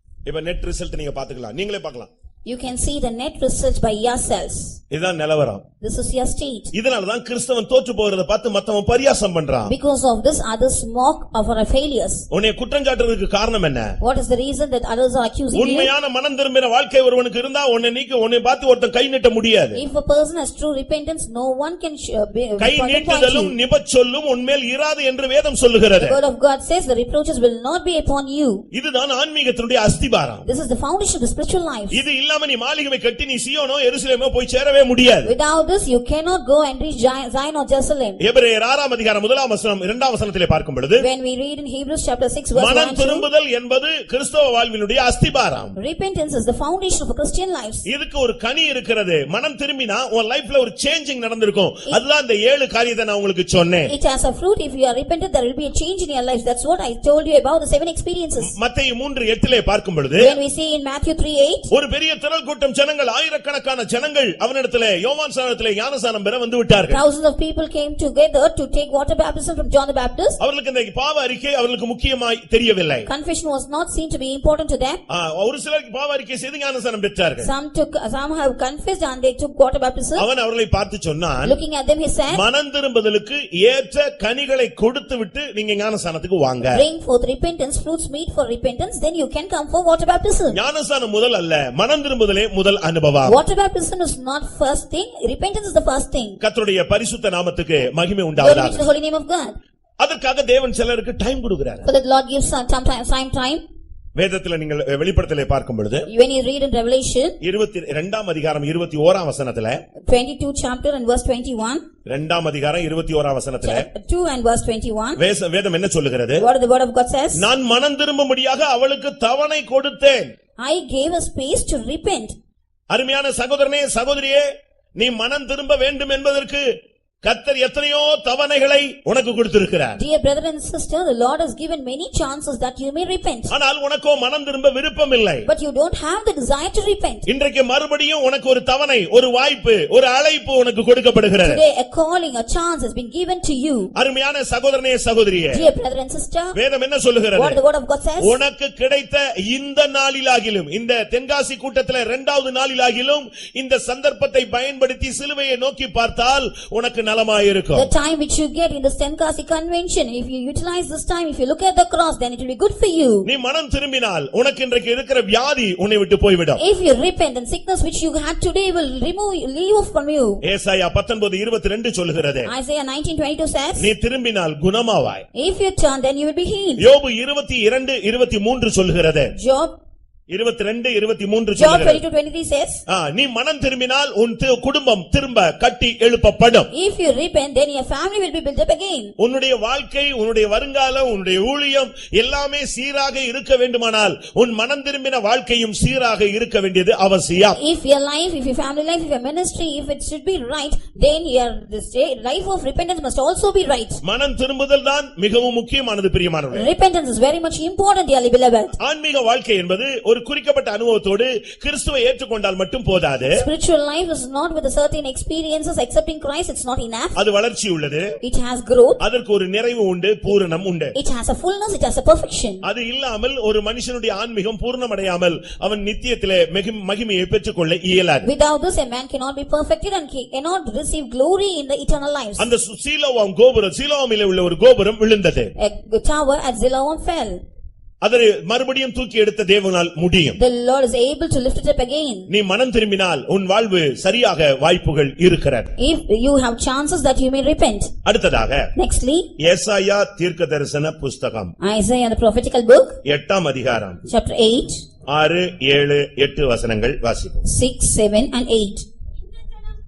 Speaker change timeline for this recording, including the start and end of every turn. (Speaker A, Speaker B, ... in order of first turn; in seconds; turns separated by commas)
Speaker A: 0.3-2.1, Speaker B: 2.5-4.8, Speaker A: 4.9-5.6, Speaker B: 5.8-6.7, Speaker A: 6.7-9.7, Speaker B: 9.7-12.3, Speaker A: 12.3-13.9, Speaker B: 14.0-15.9, Speaker A: 15.5-19.8, Speaker B: 19.8-23.5, Speaker A: 22.6-26.2, Speaker B: 26.0-28.6, Speaker A: 28.7-30.5, Speaker B: 30.5-32.0, Speaker A: 31.9-35.3, Speaker B: 35.2-38.2, Speaker A: 38.2-41.1, Speaker B: 41.0-43.3, Speaker A: 42.5-45.8, Speaker B: 45.8-47.9, Speaker A: 47.9-53.9, Speaker B: 53.9-58.5, Speaker A: 58.4-60.4, Speaker B: 60.2-61.7, Speaker A: 61.7-67.0, Speaker B: 66.9-70.4, Speaker A: 70.4-73.1, Speaker B: 73.1-75.0, Speaker A: 75.1-77.5, Speaker B: 77.4-80.3, Speaker A: 80.2-81.6, Speaker B: 81.4-82.4, Speaker A: 82.3-86.8, Speaker B: 86.7-90.6, Speaker A: 90.5-93.4, Speaker B: 93.2-96.4, Speaker A: 96.4-98.9, Speaker B: 98.4-99.6, Speaker A: 100.0-101.9, Speaker B: 101.8-103.6, Speaker A: 104.2-106.1, Speaker B: 106.1-107.4, Speaker A: 107.4-109.8, Speaker B: 110.1-111.8, Speaker A: 112.1-113.8, Speaker B: 113.6-115.2, Speaker A: 115.2-116.5, Speaker B: 116.4-117.5, Speaker A: 117.4-120.3, Speaker B: 120.6-122.3, Speaker A: 122.9-124.5, Speaker A: 125.0-126.6, Speaker A: 127.2-130.0, Speaker B: 130.0-133.5, Speaker A: 133.5-135.5, Speaker B: 135.5-137.3, Speaker A: 137.3-141.6, Speaker B: 141.4-143.9, Speaker A: 144.0-145.7, Speaker B: 145.5-146.6, Speaker A: 146.6-147.6, Speaker B: 147.3-148.4, Speaker A: 148.2-157.9, Speaker B: 157.8-163.3, Speaker A: 163.2-166.6, Speaker B: 166.6-170.4, Speaker A: 170.4-172.5, Speaker B: 172.5-173.9, Speaker A: 173.8-175.2, Speaker B: 175.3-176.8, Speaker A: 176.8-179.3, Speaker B: 179.3-179.8, Speaker A: 180.3-182.0, Speaker B: 181.6-182.8, Speaker A: 182.9-186.7, Speaker B: 186.7-189.1, Speaker A: 189.2-197.6, Speaker B: 197.5-204.0, Speaker A: 204.0-206.7, Speaker B: 206.5-208.8, Speaker A: 208.8-213.4, Speaker B: 213.3-217.2, Speaker A: 217.2-218.1, Speaker B: 218.2-219.0, Speaker A: 219.0-220.9, Speaker B: 220.9-222.7, Speaker A: 222.6-228.3, Speaker B: 228.2-232.5, Speaker A: 232.4-235.5, Speaker B: 235.6-237.4, Speaker A: 238.0-240.4, Speaker B: 240.4-242.3, Speaker A: 242.3-245.7, Speaker B: 245.8-247.9, Speaker A: 248.1-248.7, Speaker B: 248.8-249.3, Speaker A: 249.4-251.5, Speaker B: 251.6-253.0, Speaker A: 253.1-254.0, Speaker B: 254.1-254.8, Speaker A: 255.1-257.4, Speaker B: 257.5-258.9